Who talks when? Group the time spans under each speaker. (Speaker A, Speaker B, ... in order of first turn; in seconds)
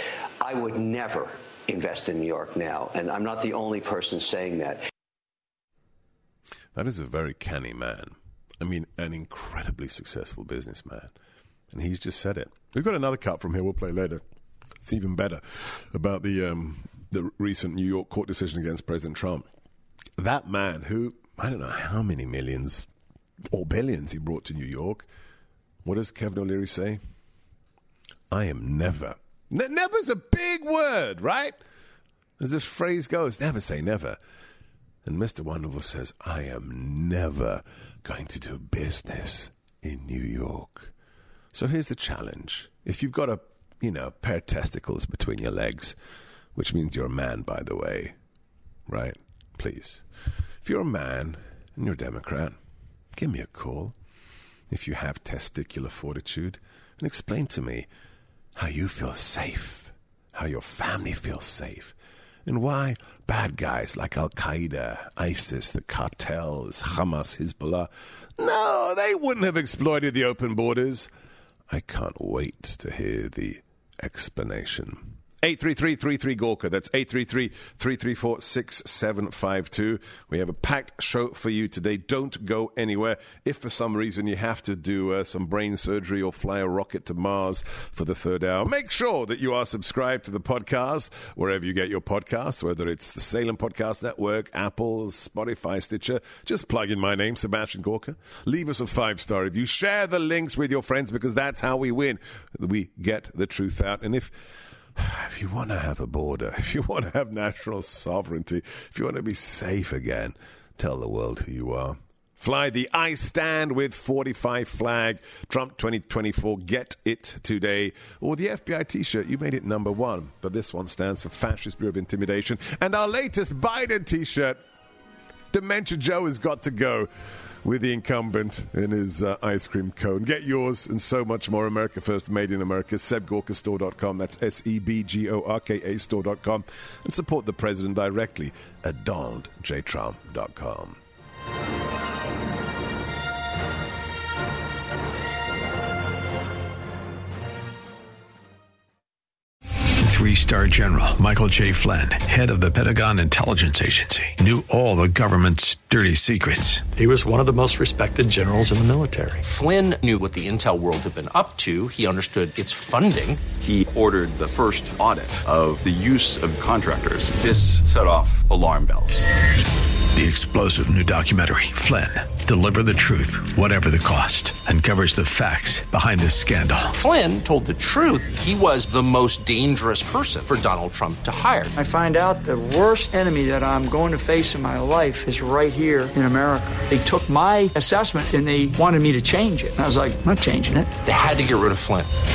Speaker A: 0.4-4.8
Speaker B: 6.8-11.1, 11.7-14.2, 14.8-19.5, 20.2-22.9, 23.5-25.1, 25.9-27.0, 28.3-31.6, 32.4-34.2, 35.0-40.9, 41.5-46.0, 46.6-48.2, 48.9-50.0, 50.6-52.6, 53.2-54.0, 54.7-57.9, 58.6-62.0, 62.5-71.1, 71.7-104.3, 105.0-124.6, 125.5-127.1, 127.6-141.0
Speaker C: 150.0-156.9, 170.1-176.9
Speaker D: 157.1-159.3
Speaker E: 159.4-163.4, 176.9-181.7, 191.0-192.1
Speaker F: 163.6-169.3
Speaker G: 181.8-191.0